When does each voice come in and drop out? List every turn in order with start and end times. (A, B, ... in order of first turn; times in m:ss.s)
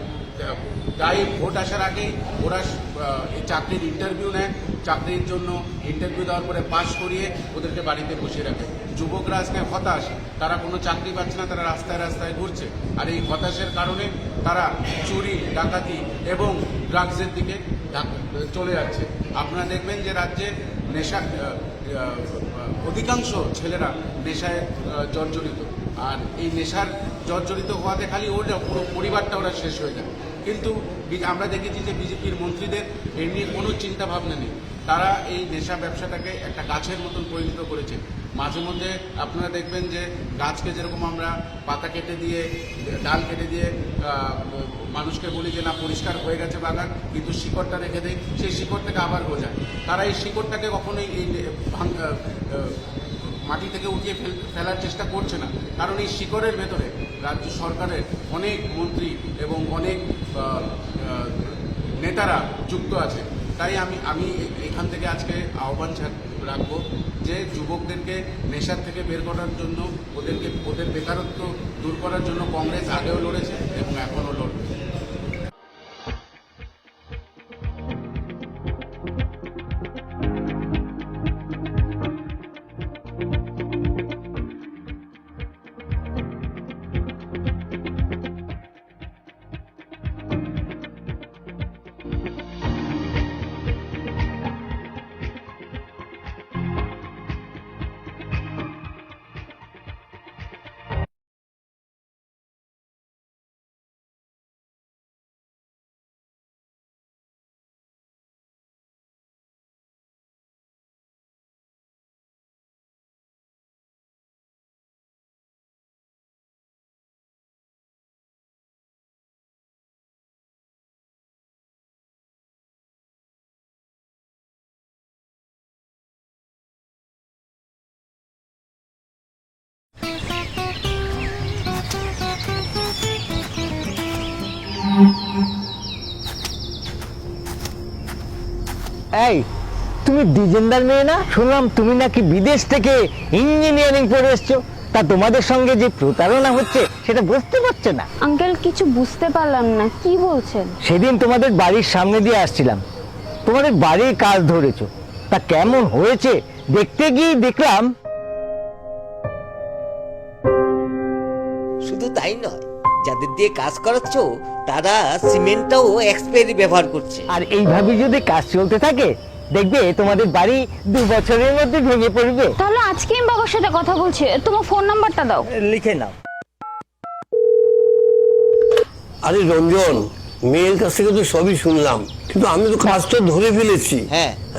0:00.4-1:14.7 A
2:19.2-2:19.4 B
2:20.0-2:28.1 B
2:28.2-2:30.7 C
2:30.8-2:32.8 B
2:33.4-2:37.9 B
2:41.8-2:47.2 D
2:47.3-2:52.6 B
2:52.6-2:55.5 C
2:55.5-2:56.1 B
2:59.2-3:04.0 E
3:04.1-3:04.4 D